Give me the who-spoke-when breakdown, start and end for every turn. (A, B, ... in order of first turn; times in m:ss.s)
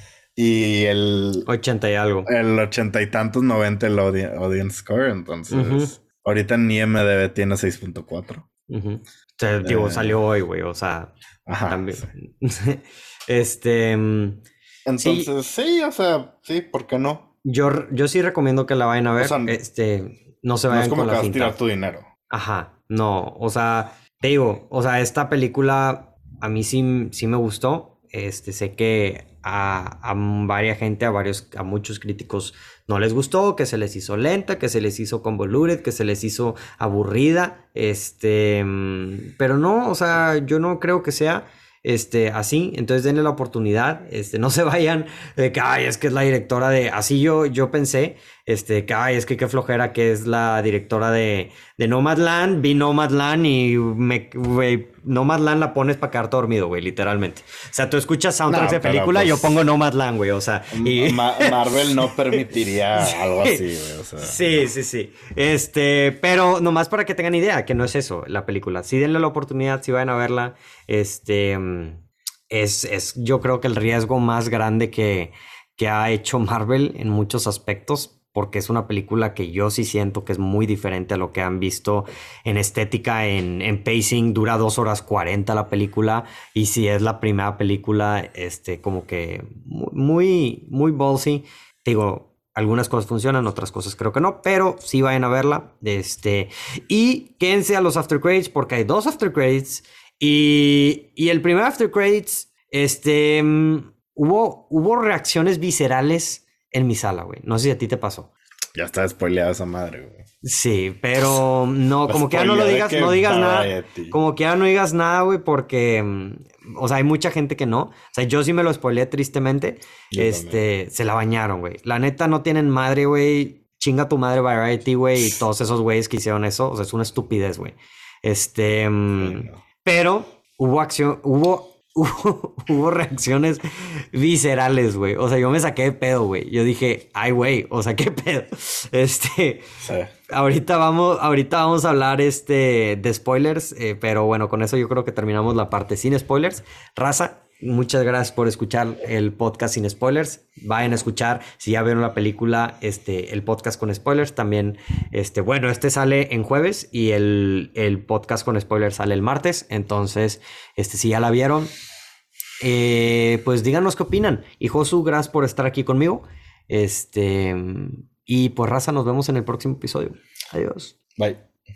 0:00.4-0:01.5 A
0:01.5-0:02.3 B
0:02.3-0:08.5 A
0:05.5-0:05.9 B
0:08.7-0:14.4 B
0:09.6-0:10.2 A
0:11.5-0:12.1 A
0:14.9-0:17.3 A
0:15.0-0:15.3 B
0:17.4-0:21.6 B
0:19.2-0:19.6 A
0:20.7-0:22.1 A
0:22.3-1:02.4 B
0:58.5-0:59.6 A
1:00.7-1:04.7 A
1:03.0-1:03.6 B
1:04.2-1:48.3 B
1:48.8-1:50.2 A
1:50.4-2:19.7 B
1:52.1-1:54.2 A
2:00.1-2:00.6 A
2:09.2-2:09.6 A
2:19.8-2:20.1 A
2:20.3-2:41.7 B
2:42.6-2:51.0 B
2:51.2-2:51.5 A